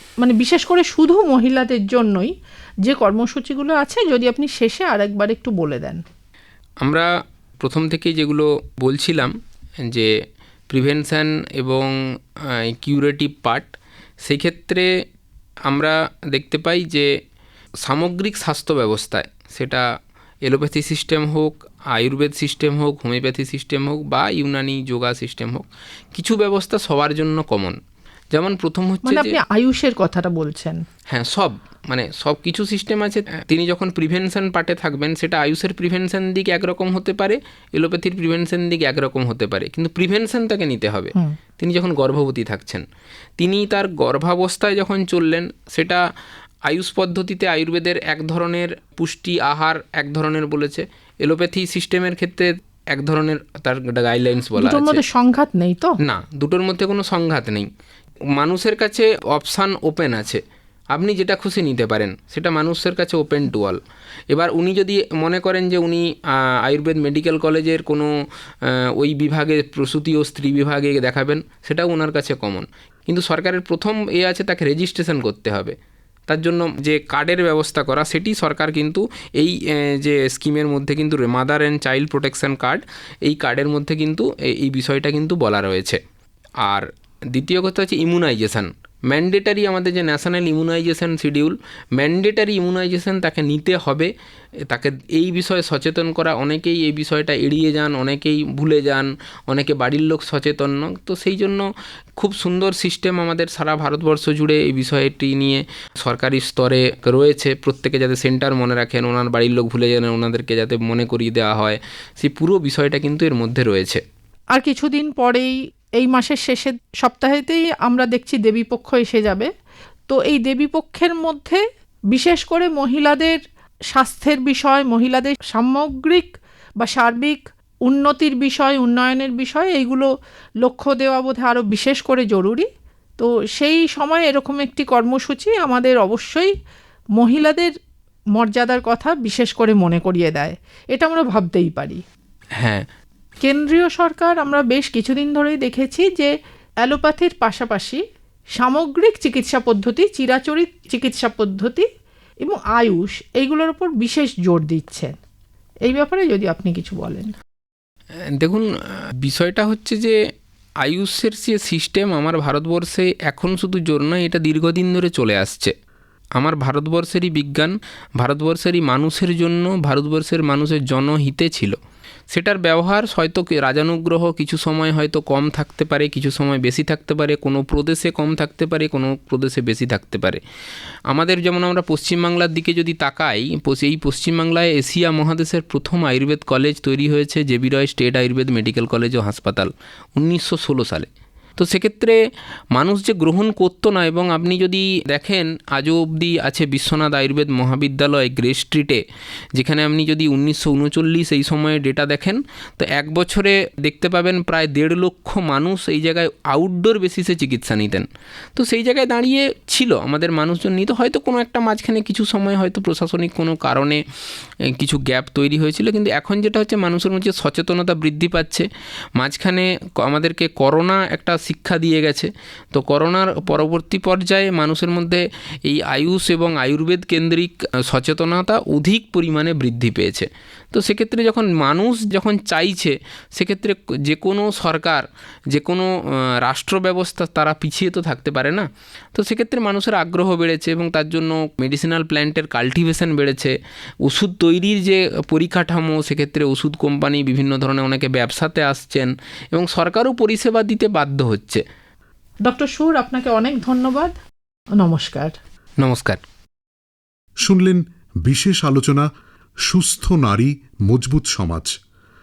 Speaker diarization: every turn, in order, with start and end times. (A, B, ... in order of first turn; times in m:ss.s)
0:00.2-0:02.3 A
0:02.8-0:06.0 A
0:07.6-0:09.3 B
0:10.7-0:12.0 B
0:12.5-0:13.7 B
0:14.2-0:14.9 B
0:15.7-0:17.1 B
0:17.8-0:19.8 B
0:20.4-0:27.8 B
0:28.3-0:29.4 B
0:29.0-0:30.8 A
0:31.1-0:42.8 B
0:43.4-0:46.0 B
0:46.7-0:55.0 B
0:54.6-0:55.9 A
0:56.0-0:57.7 B
0:58.3-1:00.4 B
1:00.9-1:03.8 B
1:04.3-1:08.1 B
1:08.6-1:15.8 B
1:16.3-1:26.0 B
1:26.6-1:34.1 B
1:34.7-1:54.0 B
1:54.5-1:59.5 A
2:00.1-2:01.6 A
2:02.1-2:03.4 A
2:03.9-2:10.1 A
2:10.6-2:12.7 A
2:13.2-2:16.5 A
2:17.2-2:17.7 A
2:18.4-2:22.0 A
2:22.6-2:22.8 B
2:23.4-2:26.3 A
2:26.8-2:28.0 A
2:28.6-2:31.8 A
2:32.4-2:35.1 A
2:35.9-2:37.3 A
2:38.3-2:38.7 B
2:39.2-2:40.2 B
2:40.8-2:45.7 B
2:46.4-2:51.8 B
2:52.3-3:00.4 B
3:01.1-3:12.2 B
3:12.7-3:19.0 B
3:19.5-3:34.0 B
3:34.7-4:11.6 B
4:12.4-4:14.1 A
4:14.8-4:15.4 A
4:15.8-4:16.2 B
4:17.4-4:19.1 C
4:19.7-4:21.7 C